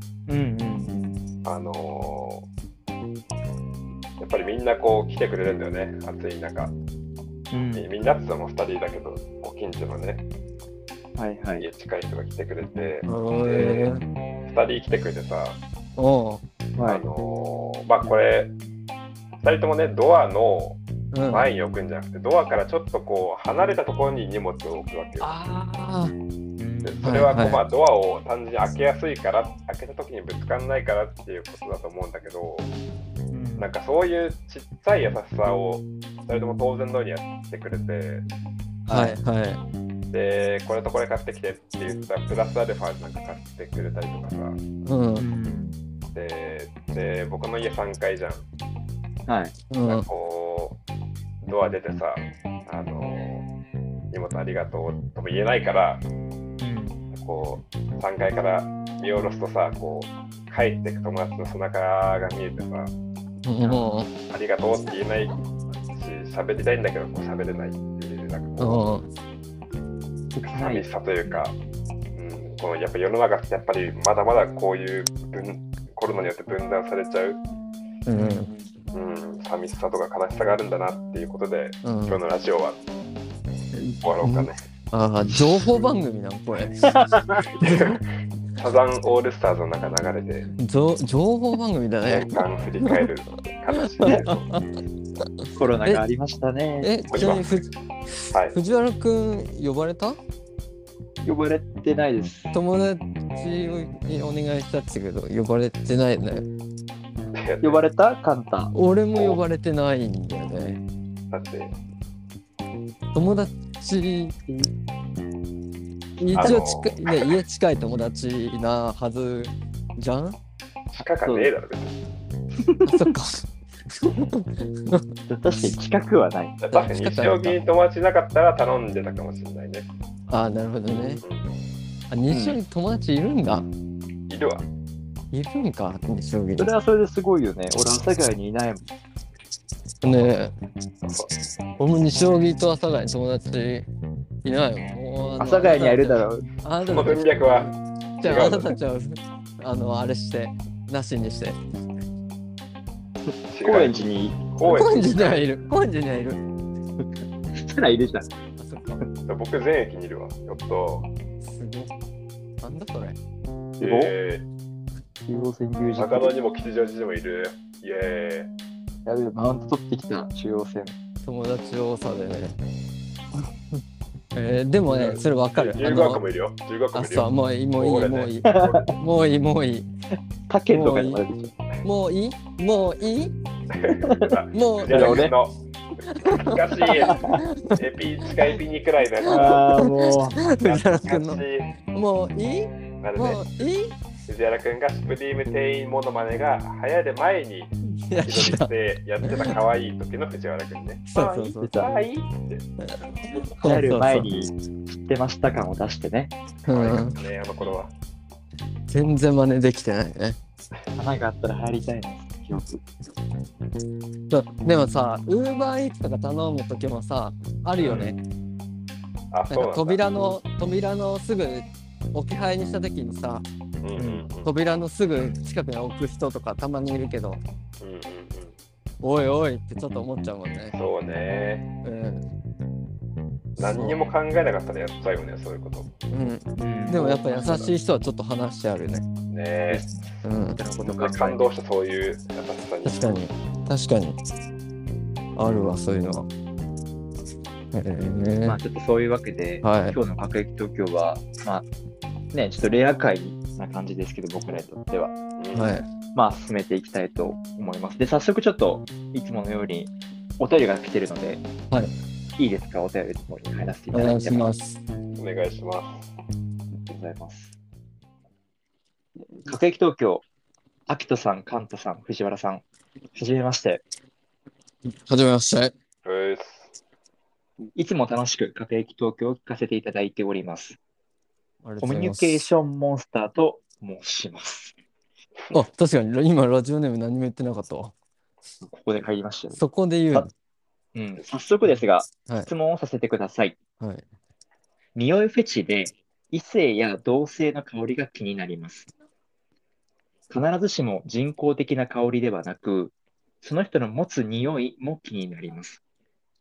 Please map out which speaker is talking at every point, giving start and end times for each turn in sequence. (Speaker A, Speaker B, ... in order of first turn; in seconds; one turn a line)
Speaker A: 0.3-1.2
Speaker B: 1.4-2.5
Speaker B: 4.2-6.7
Speaker A: 7.5-7.9
Speaker B: 7.7-10.2
Speaker A: 11.2-11.7
Speaker B: 11.6-13.9
Speaker C: 13.1-14.0
Speaker B: 14.5-15.6
Speaker C: 16.0-16.4
Speaker A: 16.8-17.1
Speaker B: 16.9-18.5
Speaker B: 19.4-25.4
Speaker C: 21.1-21.5
Speaker C: 25.2-26.1
Speaker A: 26.6-27.2
Speaker B: 26.8-32.7
Speaker C: 27.0-27.6
Speaker A: 33.3-33.7
Speaker B: 33.6-38.2
Speaker A: 38.9-39.2
Speaker C: 38.9-39.6
Speaker B: 40.1-44.6
Speaker C: 44.9-45.3
Speaker A: 45.2-45.8
Speaker B: 46.1-48.5
Speaker A: 49.3-49.5
Speaker C: 49.7-50.1
Speaker B: 49.8-50.8
Speaker B: 51.4-53.5
Speaker B: 54.1-56.0
Speaker A: 56.6-57.0
Speaker B: 57.1-62.9
Speaker C: 63.5-64.1
Speaker A: 63.6-63.9
Speaker B: 64.3-68.9
Speaker C: 68.6-69.1
Speaker A: 70.4-71.4
Speaker B: 70.4-71.5
Speaker B: 72.2-77.4
Speaker C: 78.1-78.5
Speaker A: 78.1-78.7
Speaker B: 78.9-82.8
Speaker C: 81.8-82.2
Speaker C: 83.7-87.0
Speaker B: 84.0-84.6
Speaker A: 86.8-87.5
Speaker B: 87.6-88.0
Speaker C: 87.6-88.0
Speaker B: 88.6-90.5
Speaker C: 90.6-93.0
Speaker B: 92.1-94.5
Speaker C: 94.0-94.7
Speaker A: 95.6-96.9
Speaker C: 96.8-97.7
Speaker B: 97.1-97.5
Speaker C: 98.2-100.2
Speaker A: 101.2-102.5
Speaker C: 102.5-106.5
Speaker B: 107.3-107.8
Speaker A: 107.6-108.7
Speaker C: 108.7-110.8
Speaker B: 111.3-111.7
Speaker C: 113.1-114.4
Speaker C: 116.2-120.4
Speaker A: 116.3-116.6
Speaker B: 116.3-117.1
Speaker B: 120.9-122.0
Speaker A: 121.2-121.5
Speaker A: 122.6-123.1
Speaker C: 122.8-125.0
Speaker A: 125.3-126.6
Speaker B: 126.6-129.9
Speaker C: 126.7-127.6
Speaker C: 130.3-131.2
Speaker B: 131.2-131.5
Speaker C: 132.1-133.7
Speaker A: 132.3-132.6
Speaker B: 134.3-134.6
Speaker C: 135.3-136.7
Speaker A: 136.6-138.8
Speaker C: 140.0-140.5
Speaker C: 141.8-143.9
Speaker C: 144.4-151.6
Speaker A: 145.4-146.5
Speaker B: 146.8-148.8
Speaker B: 153.5-155.4
Speaker A: 153.6-154.5
Speaker C: 154.6-156.4
Speaker A: 157.5-158.3
Speaker C: 158.6-159.0
Speaker B: 159.3-161.1
Speaker C: 161.4-161.9
Speaker C: 162.6-163.2
Speaker A: 163.8-164.2
Speaker B: 163.8-164.4
Speaker A: 165.3-166.3
Speaker B: 166.0-168.5
Speaker A: 169.1-170.9
Speaker C: 171.2-172.6
Speaker C: 174.3-176.2
Speaker B: 175.0-179.0
Speaker C: 176.9-179.9
Speaker A: 178.4-178.9
Speaker A: 180.5-181.5
Speaker C: 180.7-181.2
Speaker C: 181.8-183.3
Speaker B: 183.7-185.6
Speaker A: 184.0-184.3
Speaker C: 184.5-185.3
Speaker A: 184.9-185.3
Speaker C: 186.1-188.3
Speaker B: 186.2-189.7
Speaker A: 187.0-187.4
Speaker C: 189.2-194.0
Speaker A: 189.3-190.4
Speaker B: 190.5-191.7
Speaker B: 193.0-193.6
Speaker B: 194.3-202.6
Speaker C: 198.1-198.7
Speaker C: 199.2-199.6
Speaker C: 201.1-201.7
Speaker A: 201.6-201.9
Speaker A: 203.6-206.3
Speaker C: 203.6-204.3
Speaker B: 206.6-207.9
Speaker C: 206.7-207.2
Speaker C: 208.9-210.4
Speaker A: 211.0-212.8
Speaker C: 214.3-218.2
Speaker B: 217.8-218.1
Speaker B: 219.3-220.0
Speaker C: 219.5-223.4
Speaker B: 223.8-224.5
Speaker A: 224.0-224.2
Speaker C: 224.4-227.4
Speaker B: 227.8-228.6
Speaker C: 229.0-230.8
Speaker B: 230.7-231.7
Speaker C: 231.8-232.3
Speaker B: 233.6-235.9
Speaker C: 233.6-234.0
Speaker C: 236.1-239.1
Speaker A: 236.6-237.7
Speaker B: 237.3-237.6
Speaker B: 239.3-239.9
Speaker A: 239.7-241.4
Speaker C: 240.2-240.6
Speaker B: 240.8-243.2
Speaker C: 242.8-244.2
Speaker C: 245.4-246.3
Speaker C: 247.7-248.6
Speaker A: 248.4-251.7
Speaker C: 249.6-250.0
Speaker A: 252.3-255.2
Speaker B: 255.4-255.8
Speaker C: 255.5-255.8
Speaker A: 256.1-261.4
Speaker A: 262.4-264.5
Speaker C: 263.9-264.8
Speaker B: 265.2-266.1
Speaker A: 266.9-267.6
Speaker A: 269.4-270.2
Speaker A: 270.9-273.8
Speaker C: 274.9-275.7
Speaker B: 276.1-276.7
Speaker A: 277.8-280.8
Speaker C: 281.6-282.5
Speaker A: 281.8-284.8
Speaker C: 285.5-287.9
Speaker A: 288.6-289.6
Speaker C: 289.5-290.3
Speaker A: 290.9-293.6
Speaker C: 292.3-292.5
Speaker C: 293.8-294.1
Speaker A: 294.9-298.9
Speaker A: 300.3-305.8